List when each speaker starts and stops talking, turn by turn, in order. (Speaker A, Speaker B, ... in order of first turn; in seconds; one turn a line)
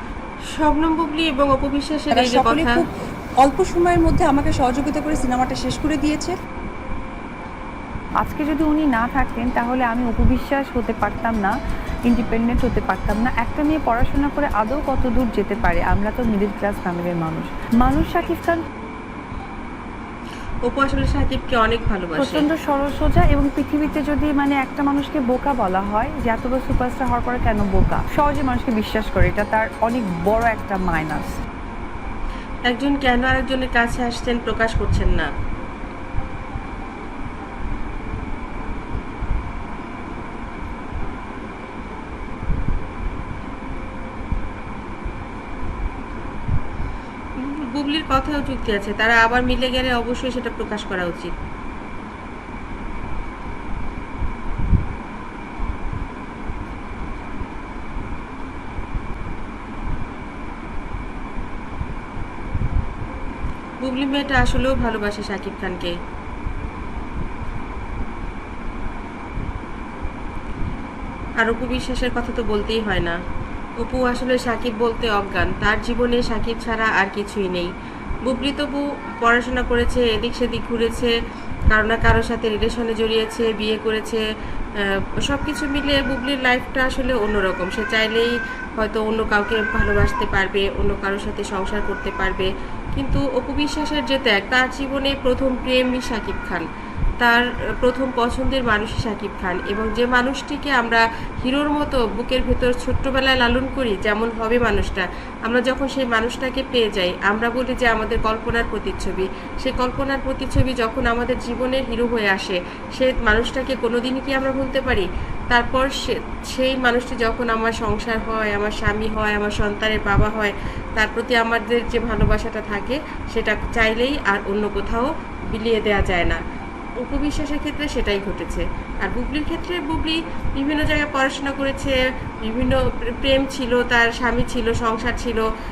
Speaker A: 0.6-2.8
Speaker B: 2.1-2.9
Speaker B: 3.4-6.4
Speaker C: 8.2-11.6
Speaker C: 12.1-18.6
Speaker A: 20.7-22.5
Speaker C: 22.2-31.4
Speaker A: 32.7-35.3
Speaker A: 47.4-51.3
Speaker A: 63.8-65.9
Speaker A: 71.4-73.2
Speaker A: 73.8-77.7
Speaker A: 78.2-81.1
Speaker A: 81.7-84.2
Speaker A: 84.8-96.7
Speaker A: 97.2-126.4
Speaker A: 127.0-135.4